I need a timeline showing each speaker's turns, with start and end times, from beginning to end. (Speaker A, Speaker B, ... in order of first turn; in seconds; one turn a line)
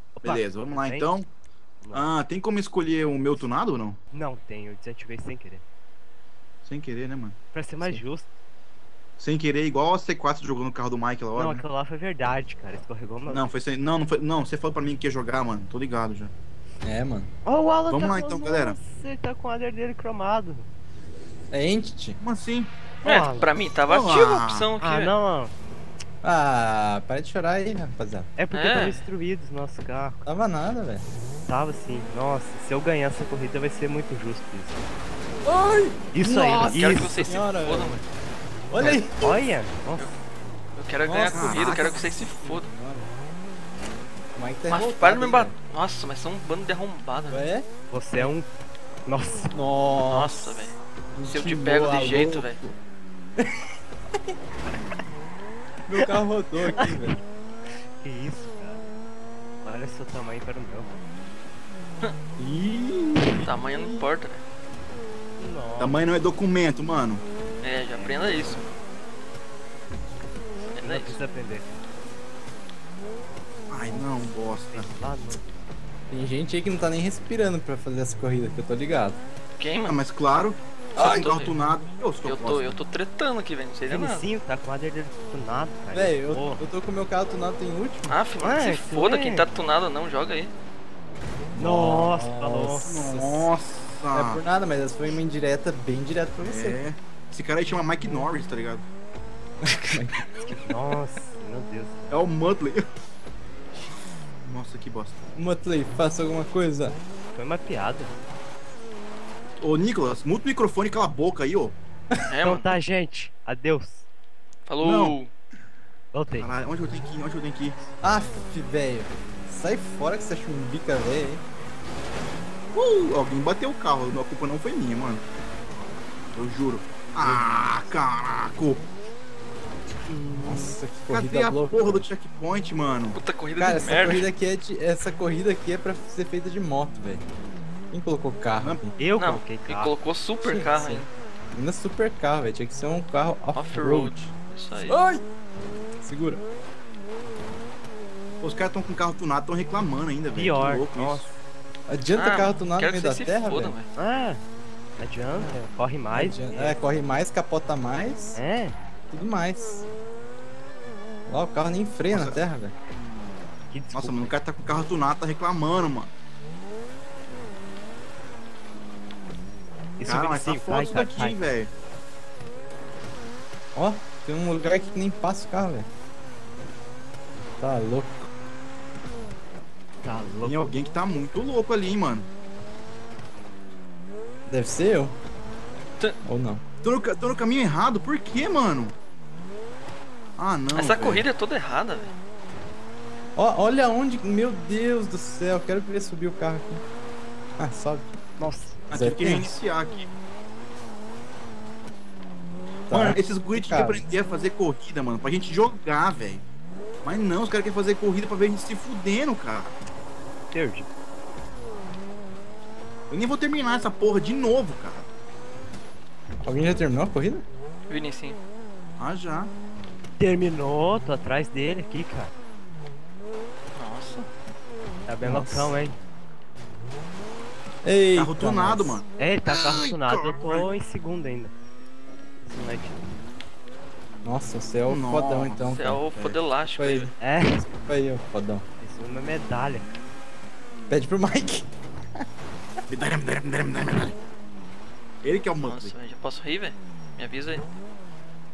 Speaker A: 0.2-1.1
Speaker B: 0.2-1.3
Speaker A: 1.8-2.1
Speaker B: 1.9-4.0
Speaker A: 4.1-5.6
Speaker B: 6.6-7.3
Speaker A: 7.5-8.3
Speaker B: 9.2-11.6
Speaker A: 11.3-13.5
Speaker B: 13.3-16.3
Speaker C: 16.8-17.3
Speaker A: 17.4-20.7
Speaker B: 17.9-18.8
Speaker C: 21.5-22.2
Speaker B: 22.2-22.7
Speaker D: 23.0-25.1
Speaker A: 23.0-23.5
Speaker B: 23.9-24.7
Speaker A: 24.8-25.5
Speaker C: 26.2-28.3
Speaker A: 28.4-30.2
Speaker D: 28.5-29.0
Speaker C: 30.2-31.0
Speaker A: 31.4-34.8
Speaker C: 35.4-38.0
Speaker A: 36.1-37.4
Speaker D: 36.7-38.0
Speaker C: 38.7-39.4
Speaker A: 39.1-40.1
Speaker D: 40.8-42.7
Speaker C: 41.0-43.1
Speaker B: 41.3-41.9
Speaker C: 44.3-45.5
Speaker D: 44.7-47.4
Speaker C: 47.3-48.3
Speaker A: 47.9-48.5
Speaker A: 49.0-49.5
Speaker C: 49.5-52.8
Speaker D: 50.0-50.8
Speaker D: 51.3-52.6
Speaker C: 53.4-54.3
Speaker C: 55.9-57.2
Speaker A: 56.7-57.1
Speaker A: 57.8-58.8
Speaker A: 59.6-61.0
Speaker B: 62.4-63.4
Speaker C: 63.1-63.9
Speaker D: 63.3-64.4
Speaker A: 65.4-66.0
Speaker B: 65.8-67.2
Speaker D: 67.6-68.7
Speaker D: 70.7-71.2
Speaker A: 70.8-71.7
Speaker B: 73.7-74.9
Speaker A: 74.7-75.5
Speaker C: 76.1-79.2
Speaker D: 79.6-80.0
Speaker B: 79.8-82.8
Speaker D: 81.0-81.6
Speaker D: 82.2-84.2
Speaker A: 83.9-86.7
Speaker C: 85.9-88.2
Speaker D: 88.1-90.5
Speaker A: 88.4-89.5
Speaker C: 91.5-93.5
Speaker A: 91.5-92.9
Speaker B: 92.8-94.4
Speaker C: 94.1-96.8
Speaker B: 96.4-98.8
Speaker C: 99.6-100.6
Speaker A: 100.4-102.2
Speaker B: 102.1-102.8
Speaker B: 104.4-105.2
Speaker C: 105.3-107.0
Speaker A: 107.3-108.1
Speaker B: 109.6-111.8
Speaker D: 112.2-112.7
Speaker A: 112.4-114.1
Speaker D: 114.7-115.3
Speaker B: 114.8-115.2
Speaker A: 116.1-116.6
Speaker B: 116.4-117.8
Speaker C: 118.0-121.4
Speaker B: 122.7-125.2
Speaker B: 126.3-128.8
Speaker A: 127.4-127.8
Speaker A: 130.1-130.8
Speaker C: 130.4-132.0
Speaker B: 131.1-133.2
Speaker D: 133.1-134.2
Speaker C: 133.6-137.3
Speaker C: 137.9-139.0
Speaker A: 139.0-139.9
Speaker D: 139.2-141.1
Speaker C: 140.4-144.3
Speaker D: 143.5-145.0
Speaker C: 144.8-145.2
Speaker C: 146.0-146.4
Speaker B: 148.4-151.3
Speaker A: 150.3-151.3
Speaker C: 151.9-153.8
Speaker D: 152.1-153.9
Speaker A: 153.9-154.4
Speaker A: 155.0-156.8
Speaker C: 156.1-158.4
Speaker A: 158.3-158.8
Speaker C: 159.1-159.8
Speaker C: 161.3-162.7
Speaker B: 162.1-162.4
Speaker A: 163.7-164.4
Speaker B: 163.9-166.1
Speaker A: 170.0-171.5
Speaker B: 170.0-171.7
Speaker C: 173.7-175.9
Speaker C: 177.6-178.2
Speaker A: 180.0-180.7
Speaker B: 180.4-182.3
Speaker C: 184.5-185.2
Speaker C: 186.2-186.6
Speaker B: 186.8-188.9
Speaker B: 190.4-191.3
Speaker D: 190.7-192.1
Speaker C: 193.3-196.8
Speaker C: 197.6-198.2
Speaker A: 198.4-198.8
Speaker C: 198.9-199.5
Speaker B: 198.9-200.1
Speaker C: 202.9-204.1
Speaker B: 202.9-206.4
Speaker B: 207.0-209.8
Speaker A: 210.5-210.9
Speaker B: 213.1-215.1
Speaker C: 216.4-217.4
Speaker D: 217.9-218.4
Speaker B: 219.0-219.5
Speaker A: 220.2-222.3
Speaker D: 223.7-224.3
Speaker A: 225.1-226.0
Speaker C: 225.2-225.8
Speaker C: 227.8-229.0
Speaker B: 228.1-230.7
Speaker A: 229.2-231.5
Speaker A: 232.4-233.0
Speaker C: 234.2-236.1
Speaker B: 234.9-236.4
Speaker D: 235.6-237.1
Speaker C: 236.8-237.1
Speaker A: 237.2-237.7
Speaker C: 237.8-238.7
Speaker A: 238.8-239.9
Speaker C: 240.9-241.7
Speaker B: 242.9-244.2
Speaker B: 245.2-245.9
Speaker D: 245.6-247.6